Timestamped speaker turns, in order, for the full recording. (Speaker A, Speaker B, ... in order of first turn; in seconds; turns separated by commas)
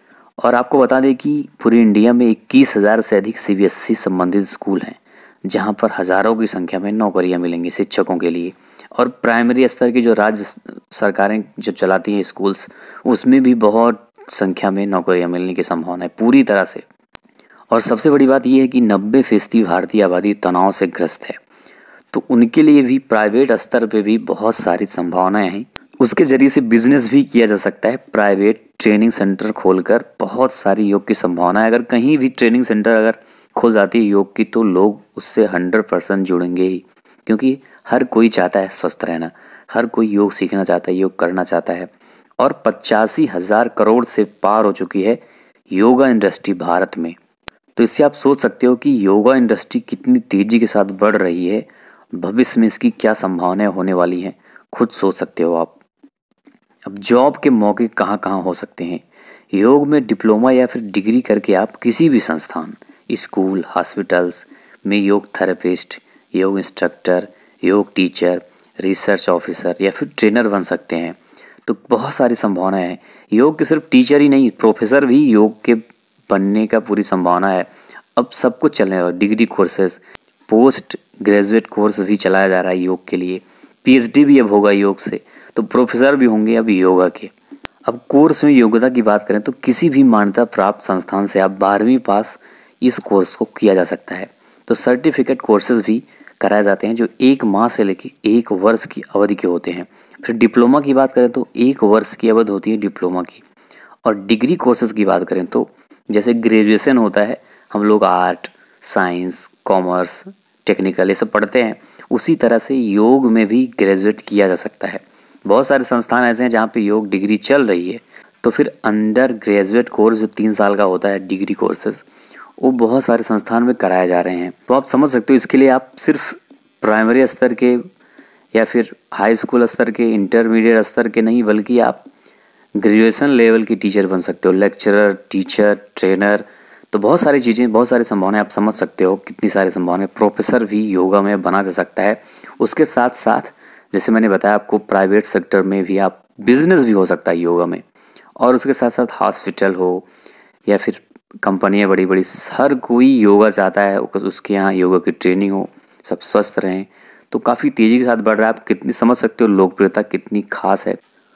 Speaker A: 0.4-16.9, Speaker A: 17.7-21.4, Speaker A: 22.1-47.2, Speaker A: 47.8-55.8, Speaker A: 56.9-87.3, Speaker A: 87.8-103.4, Speaker A: 104.0-122.0, Speaker A: 122.6-127.9, Speaker A: 128.5-132.0, Speaker A: 132.8-147.8, Speaker A: 148.4-150.1, Speaker A: 150.7-161.0